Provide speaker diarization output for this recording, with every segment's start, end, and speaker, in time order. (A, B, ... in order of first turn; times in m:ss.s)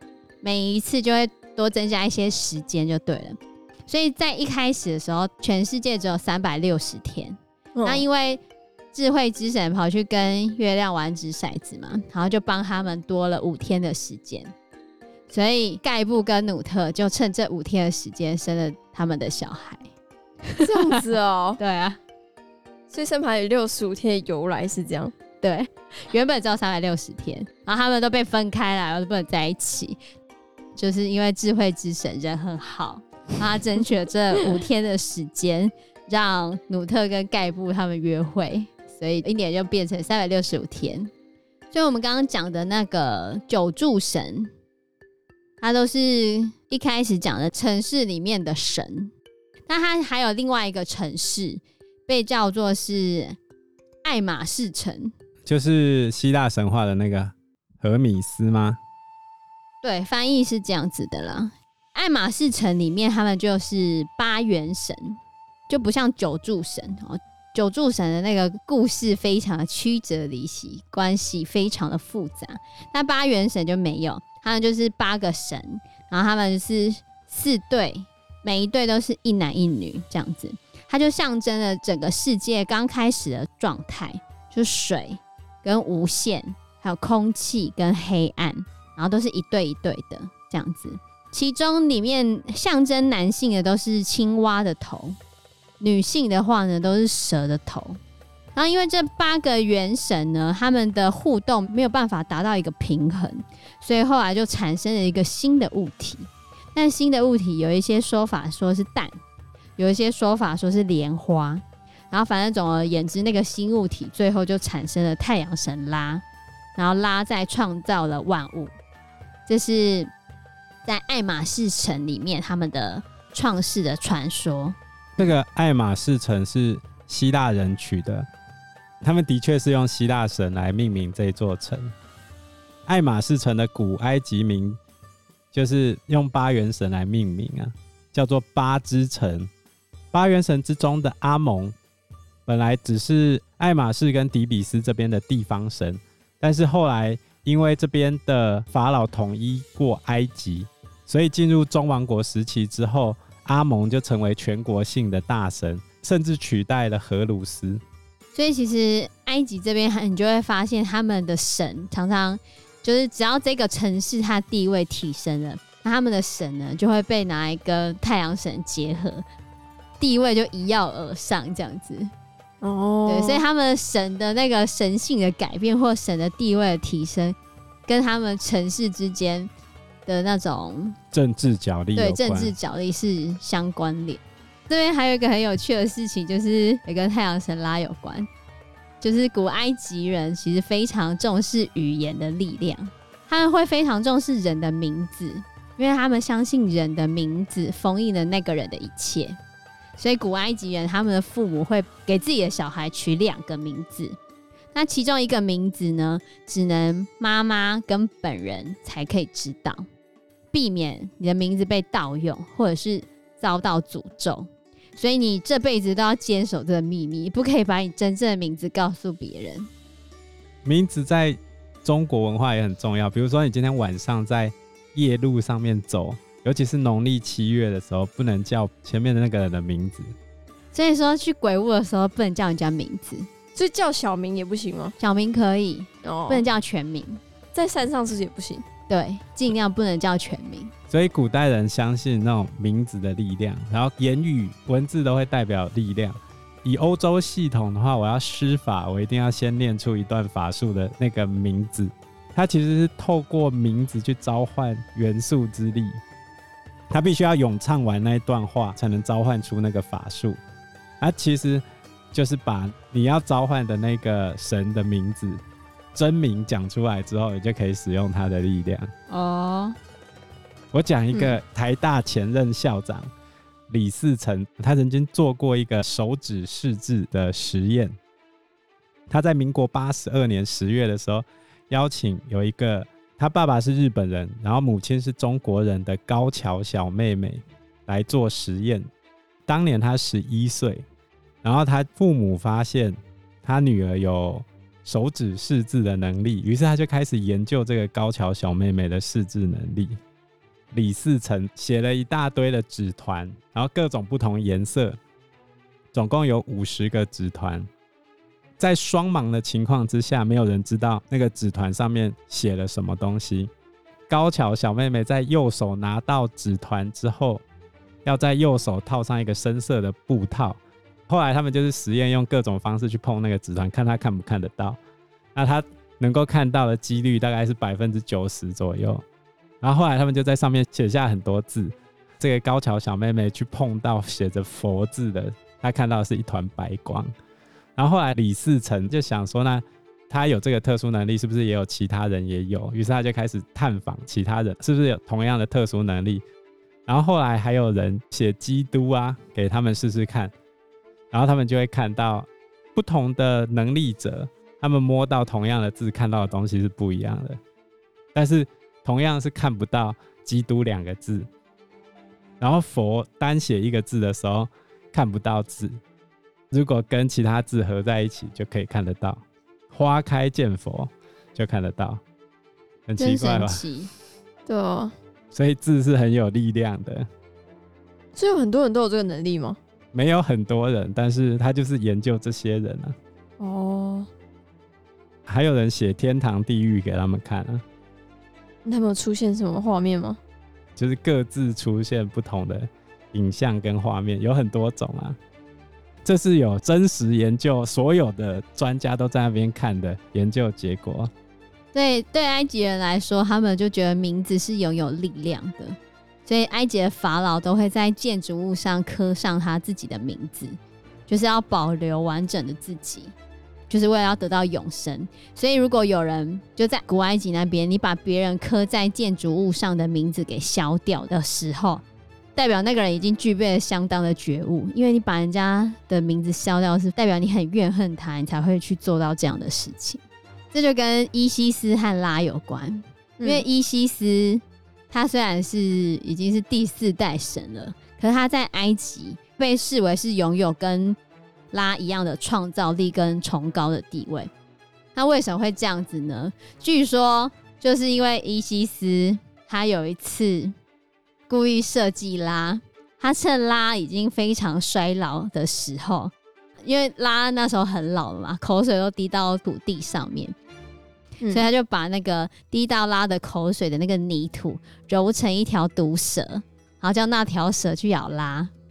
0:00.4-0:08.4 A
0:07.8-0:08.0 B
0:08.9-0:14.5 A
0:15.3-0:19.9 A
0:20.5-0:20.8 A
0:20.6-0:21.6 B
0:21.6-0:22.0 A
0:22.9-0:25.1 B
0:25.4-0:30.0 A
0:30.8-0:41.1 A
0:41.7-0:44.5 A
0:45.6-0:49.1 A
0:49.7-0:53.4 A
0:54.0-0:55.1 A
0:55.4-0:58.8 C
0:59.8-1:35.2 A
1:35.8-1:38.0 A
1:38.5-1:49.1 A
1:49.8-1:56.2 A
1:56.8-1:58.7 A
1:59.5-2:00.1 A
2:00.8-2:04.8 A
2:05.2-2:08.3 C
2:09.0-2:11.9 C
2:12.9-2:14.8 C
2:15.5-2:19.5 C
2:20.1-2:21.8 C
2:22.5-2:37.8 C
2:38.3-2:49.2 A
2:50.0-2:52.1 A
2:52.6-2:53.4 B
2:53.0-2:57.4 A
2:57.9-2:59.5 A
3:00.0-3:01.0 A
3:01.1-3:02.5 C
3:02.0-3:08.3 A
3:09.0-3:19.4 A
3:20.0-3:24.2 A
3:24.7-3:29.9 A
3:30.5-3:39.7 A
3:40.6-3:50.1 C
3:50.7-3:53.3 A
3:53.5-3:55.0 B
3:55.0-3:57.2 A
3:56.0-3:56.4 B
3:57.5-3:58.6 B
3:58.9-4:00.7 A
4:00.9-4:16.0 C
4:16.9-4:20.4 C
4:21.0-4:25.4 C
4:25.9-4:28.9 C
4:29.1-4:29.8 A
4:30.7-4:33.1 C
4:31.1-4:31.4 B
4:33.7-4:38.0 C
4:39.1-4:48.9 C
4:49.5-4:50.8 C
4:51.4-5:00.0 C
5:00.7-5:05.0 C
5:05.9-5:07.7 C
5:08.6-5:13.5 C
5:14.1-5:17.4 C
5:18.0-5:24.8 C
5:25.3-5:29.0 C
5:29.6-5:37.1 C
5:37.8-5:46.2 C
5:46.9-5:50.3 C
5:51.1-5:57.4 C
5:58.1-6:01.3 C
6:02.4-6:05.8 C
6:06.5-6:12.0 C
6:12.9-6:13.6 C
6:13.0-6:13.9 A
6:14.5-6:14.9 B
6:15.3-6:17.1 C
6:18.2-6:19.6 B
6:19.9-6:23.0 C
6:23.4-6:24.1 B
6:25.3-6:27.6 C
6:28.6-6:30.2 B
6:30.8-6:35.2 C
6:36.0-6:41.1 C
6:41.7-6:50.6 A
6:51.1-6:53.1 A
6:53.7-7:01.8 A
7:02.4-7:21.0 A
7:21.5-7:24.3 A
7:25.0-7:30.5 A
7:31.3-7:36.1 A
7:36.6-7:40.3 A
7:41.3-7:48.5 A